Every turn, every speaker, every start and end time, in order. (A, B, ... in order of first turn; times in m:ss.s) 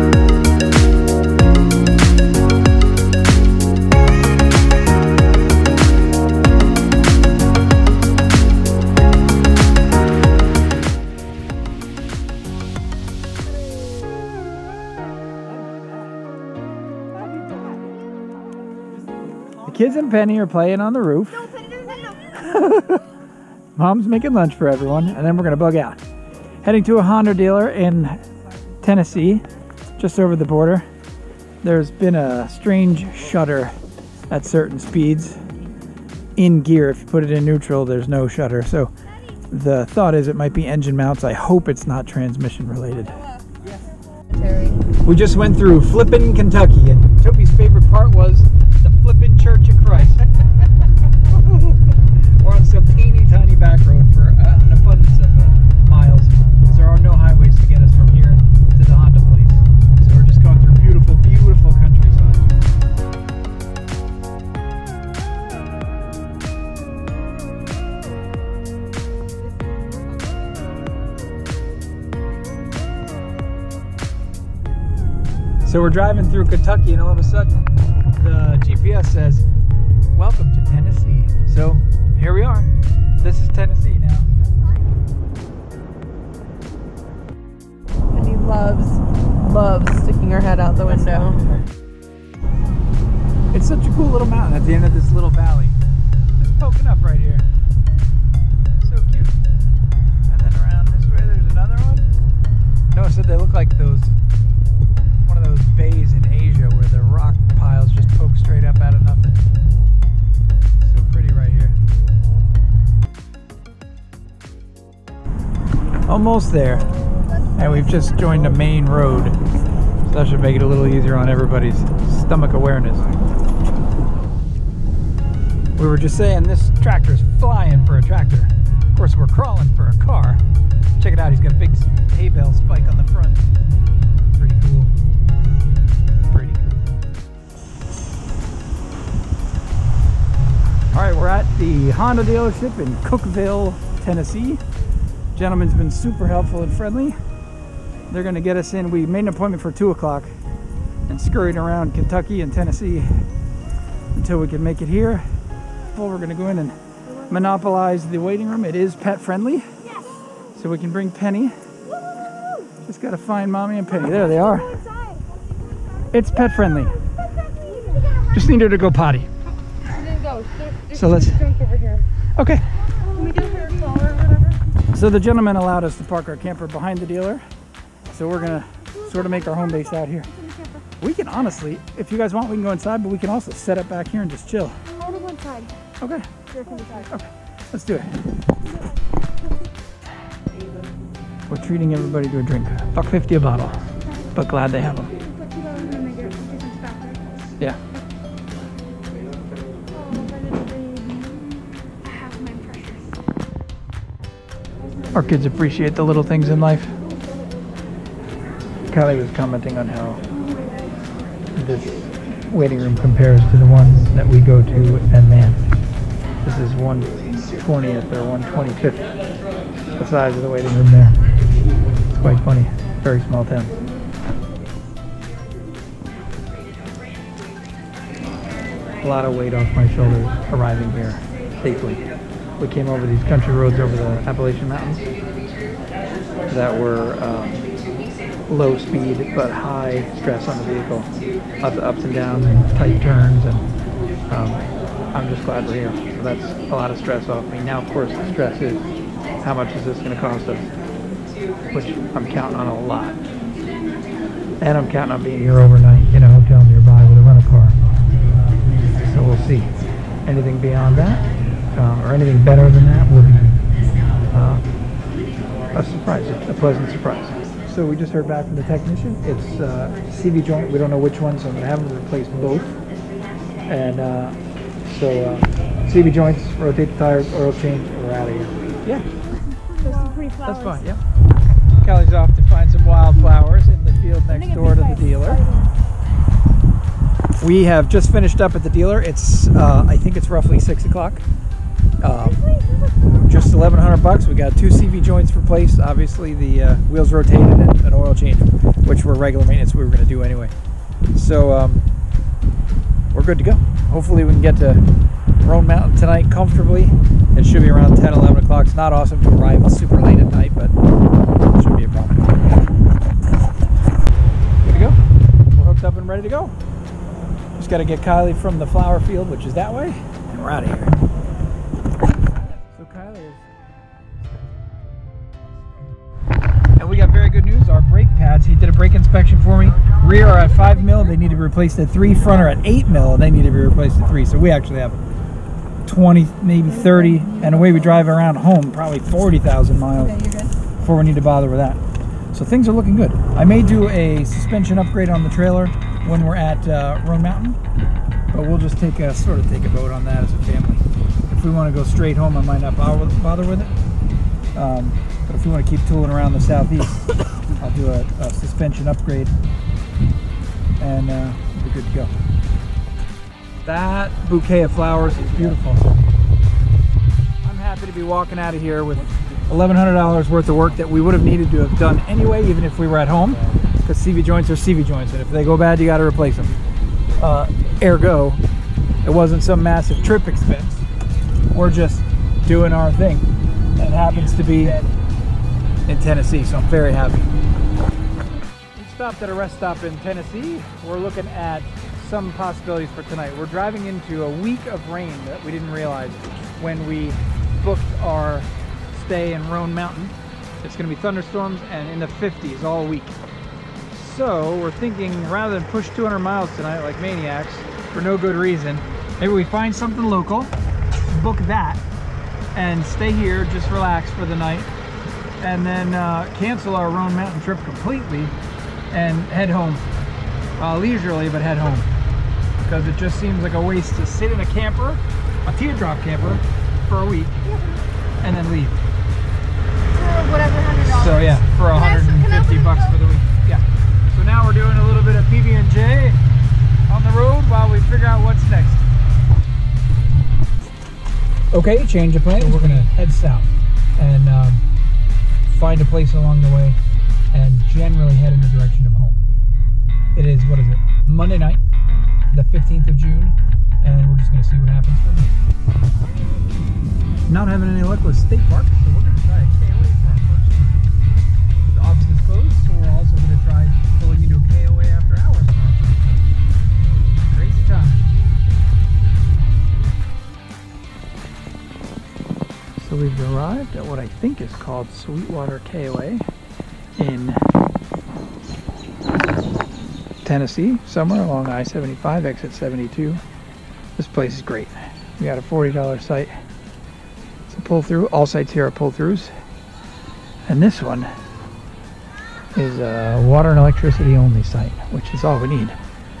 0:19.6-0:21.5 A
0:21.6-0:22.4 B
0:22.4-0:23.1 A
0:23.7-0:26.0 A
0:26.6-0:28.2 A
0:28.8-0:29.4 A
0:30.0-0:30.9 A
0:31.6-0:33.7 A
0:34.3-0:35.4 A
0:36.4-0:38.9 A
0:39.5-0:43.2 A
0:44.3-0:44.8 C
0:45.0-0:50.2 A
0:51.2-0:51.8 A
0:52.4-1:02.4 A
1:15.6-1:19.4 A
1:20.1-1:24.3 A
1:28.1-1:31.4 C
1:30.8-1:31.5 A
1:33.5-1:35.8 A
1:36.4-1:37.5 A
1:38.8-1:39.4 A
1:40.3-1:42.1 A
1:42.9-1:44.2 A
1:45.2-1:49.4 A
1:50.8-1:51.8 A
1:56.0-1:56.9 A
1:57.5-1:59.4 A
2:00.0-2:03.1 A
2:05.8-2:10.4 A
2:11.0-2:13.5 A
2:14.3-2:14.9 A
2:16.2-2:16.9 A
2:20.9-2:24.6 A
2:25.3-2:27.2 A
2:28.1-2:30.3 A
2:31.1-2:33.3 A
2:34.1-2:35.2 A
2:35.9-2:39.7 A
2:40.5-2:41.6 A
2:42.8-2:44.8 A
2:46.1-2:47.0 A
2:48.2-2:49.3 A
2:49.9-2:52.0 C
2:50.9-2:51.4 A
2:52.4-2:52.8 A
2:53.0-2:54.6 C
2:53.1-2:54.0 B
2:54.9-2:57.4 A
2:58.1-3:00.3 A
3:00.3-3:00.8 B
3:01.0-3:04.8 A
3:05.0-3:05.7 B
3:06.0-3:06.3 A
3:06.5-3:07.1 B
3:07.0-3:08.2 A
3:11.5-3:13.8 A
3:14.3-3:15.1 A
3:15.2-3:17.5 B
3:20.1-3:20.9 B
3:22.0-3:23.2 B
3:25.1-3:26.9 A
3:28.9-3:30.2 A
3:31.6-3:35.6 A
3:36.4-3:39.1 A
3:40.0-3:41.2 A
3:42.1-3:43.7 A
3:49.0-3:52.0 A
3:52.6-3:55.1 A
3:56.5-3:57.6 A
3:58.5-4:03.6 A
4:04.3-4:08.8 A
4:09.4-4:10.7 A
4:11.7-4:13.2 A
4:14.6-4:17.8 A
4:19.0-4:23.6 A
4:24.3-4:24.6 A
4:25.7-4:32.7 A
4:33.7-4:39.1 A
4:39.4-4:40.7 B
4:40.4-4:41.0 A
4:41.8-4:45.4 A
4:44.6-4:45.7 B
4:47.4-4:51.2 A
4:52.0-4:52.4 A
4:52.2-4:53.2 B
4:53.1-5:00.5 A
5:01.1-5:01.8 A
5:03.1-5:04.8 A
5:05.4-5:10.7 A
5:11.4-5:12.4 A
5:14.6-5:15.0 A
5:15.5-5:16.5 A
5:17.6-5:21.0 A
5:22.7-5:23.4 A
5:24.3-5:24.7 A
5:26.8-5:35.0 A
5:35.8-5:40.2 A
5:40.8-5:41.8 A
5:42.3-5:47.6 A
5:48.3-5:53.7 A
5:54.5-5:59.3 A
6:00.8-6:02.1 A
6:03.6-6:05.9 A
6:07.4-6:16.5 A
6:17.2-6:18.4 A
6:19.0-6:20.8 A
6:21.5-6:24.8 A
6:25.9-6:27.3 A
6:28.7-6:43.2 A
6:43.9-6:50.5 A
6:51.1-6:51.8 A
6:52.5-6:54.7 A
6:55.4-6:58.4 A
6:58.9-6:59.8 A
7:00.6-7:01.9 A
7:02.6-7:07.4 A
7:07.5-7:07.8 B
7:08.2-7:08.8 A
7:09.9-7:12.9 B
7:10.8-7:16.2 A
7:16.9-7:18.9 A
7:21.5-7:24.6 A
7:25.5-7:26.8 A
7:27.3-7:29.2 A
7:30.1-7:31.6 A
7:32.3-7:35.3 A
7:37.3-7:40.9 A
7:41.7-7:46.3 A
7:47.2-7:48.2 A
7:52.8-7:56.2 A
7:57.0-7:57.4 A
8:00.2-8:03.2 A
8:04.0-8:06.3 A
8:07.5-8:09.3 A
8:10.4-8:11.1 A
8:12.5-8:15.8 A